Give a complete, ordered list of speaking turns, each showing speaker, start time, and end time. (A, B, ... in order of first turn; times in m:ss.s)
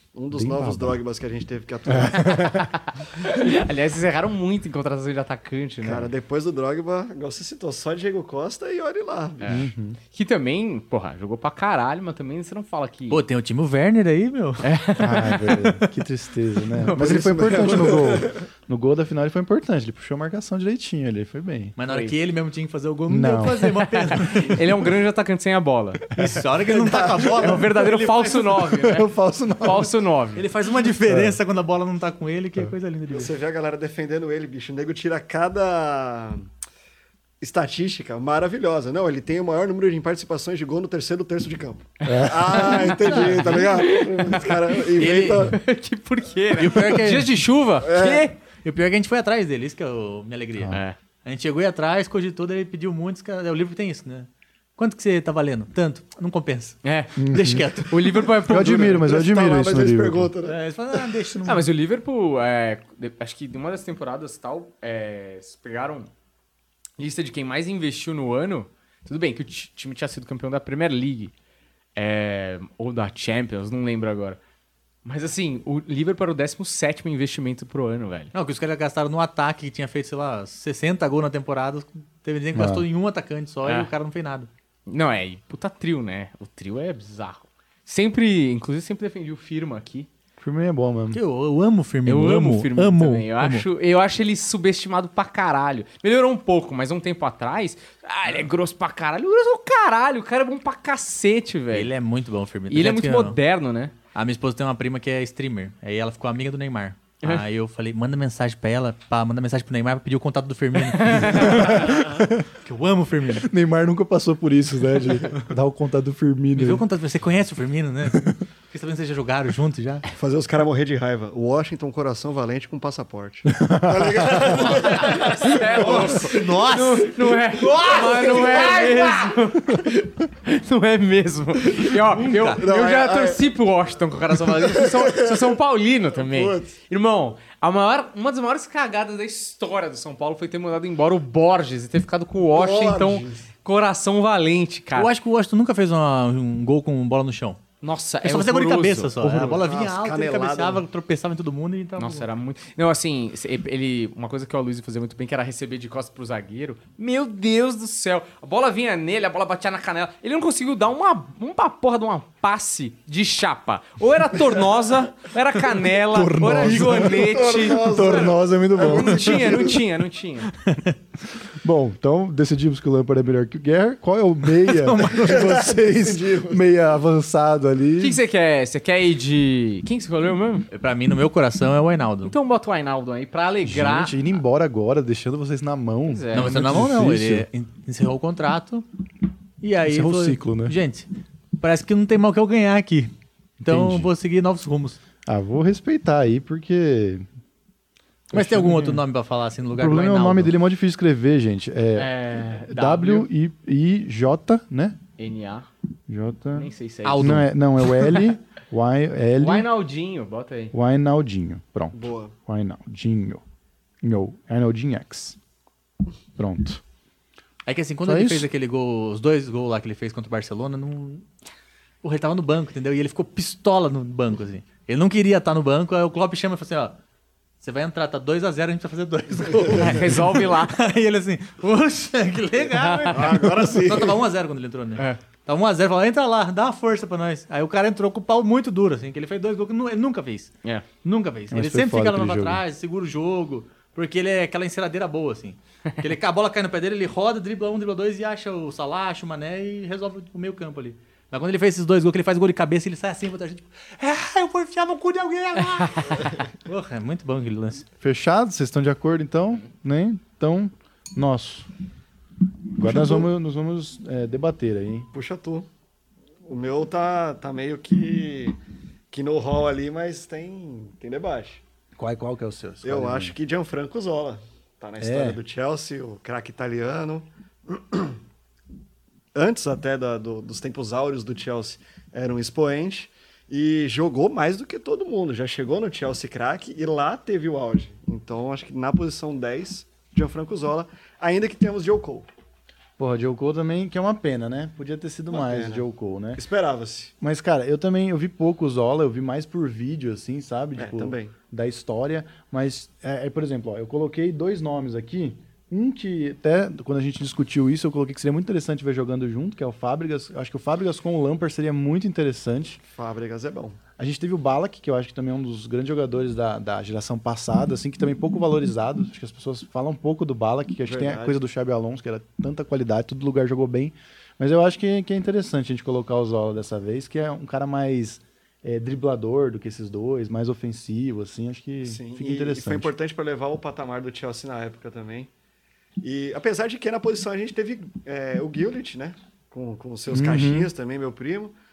0:00.1-0:02.6 A
0:00.3-0:01.0 B
0:01.9-0:02.7 B
0:02.1-0:06.1 C
0:05.8-0:09.7 A
0:09.4-0:13.2 C
0:09.5-0:10.0 B
0:13.1-0:15.8 D
0:14.6-0:15.6 C
0:15.0-0:21.7 B
0:16.8-0:17.9 C
0:16.9-0:18.4 A
0:21.8-0:24.7 D
0:21.8-0:22.1 C
0:23.1-0:23.6 B
0:23.4-0:26.1 C
0:26.1-0:28.9 D
0:26.9-0:27.2 A
0:27.1-0:29.0 C
0:28.7-0:29.9 B
0:29.6-0:30.4 C
0:30.4-0:33.3 D
0:31.0-0:31.4 B
0:33.1-0:36.5 A
0:37.4-0:45.6 A
0:42.0-0:43.1 B
0:42.5-0:44.9 C
0:43.0-0:43.6 D
0:45.0-0:45.6 D
0:45.4-0:48.4 C
0:46.6-0:47.4 D
0:47.8-0:48.3 A
0:48.6-0:58.4 D
0:50.7-0:51.0 C
0:56.8-0:57.2 C
0:57.2-0:57.8 B
0:57.9-0:59.1 C
0:58.4-1:00.3 B
0:58.7-1:01.0 A
1:00.4-1:01.7 D
1:01.4-1:06.1 C
1:07.0-1:11.3 C
1:12.0-1:14.4 C
1:15.0-1:18.3 C
1:18.3-1:24.5 D
1:22.5-1:22.8 B
1:23.6-1:23.9 C
1:24.9-1:30.1 C
1:30.4-1:31.2 B
1:31.1-1:33.6 D
1:32.0-1:41.9 C
1:41.7-1:43.4 D
1:42.7-1:43.9 C
1:44.1-1:53.5 D
1:50.9-1:51.9 C
1:51.2-1:52.5 B
1:53.4-1:56.8 B
1:56.5-2:00.0 D
2:00.1-2:06.6 A
2:03.5-2:04.6 B
2:04.6-2:25.1 C
2:05.4-2:08.7 D
2:07.6-2:09.3 A
2:11.9-2:12.6 D
2:12.6-2:13.4 A
2:14.5-2:15.6 A
2:16.1-2:16.7 A
2:22.5-2:23.4 A
2:24.9-2:27.6 D
2:27.8-2:29.6 C
2:28.2-2:32.2 D
2:29.5-2:30.8 A
2:32.0-2:50.5 C
2:46.1-2:49.8 B
2:46.6-2:49.8 A
2:50.7-2:50.9 D
2:51.5-2:58.2 B
2:54.6-2:55.7 D
2:55.1-2:56.6 A
2:58.0-3:00.7 C
3:00.7-3:02.3 D
3:02.2-3:04.3 C
3:03.6-3:07.5 B
3:06.1-3:06.5 C
3:06.3-3:08.8 D
3:09.6-3:15.0 D
3:09.8-3:10.8 B
3:13.6-3:14.1 B
3:15.2-3:17.2 B
3:18.3-3:19.0 B
3:18.3-3:20.5 D
3:19.7-3:25.0 B
3:22.0-3:23.3 C
3:25.2-3:25.7 C
3:26.1-3:29.7 B
3:26.5-3:27.4 C
3:27.0-3:27.5 D
3:29.4-3:30.7 C
3:30.7-3:33.4 B
3:31.9-3:32.3 A
3:34.0-3:35.4 B
3:36.4-3:36.8 B
3:37.6-3:41.2 D
3:38.0-3:38.5 B
3:42.0-3:47.0 D
3:47.6-4:00.5 D
3:49.7-3:50.8 C
3:52.8-3:53.3 C
3:53.1-3:54.2 A
4:01.0-4:17.8 D
4:01.5-4:02.6 B
4:15.8-4:16.3 C
4:18.0-4:21.7 B
4:22.7-4:25.1 B
4:22.8-4:23.3 A
4:25.1-4:25.7 A
4:26.4-4:28.6 A
4:29.1-4:31.6 A
4:32.0-4:33.3 B
4:32.8-4:38.2 A
4:35.0-4:35.4 B
4:39.3-4:52.3 A
4:53.0-4:56.4 B
4:55.3-4:55.8 A
4:56.3-4:57.1 A
4:57.2-5:12.8 B
5:00.8-5:01.3 A
5:12.8-5:13.8 A
5:14.0-5:32.9 B
5:20.8-5:21.4 A
5:31.8-5:35.3 A
5:36.0-5:41.5 A
5:40.1-5:40.7 B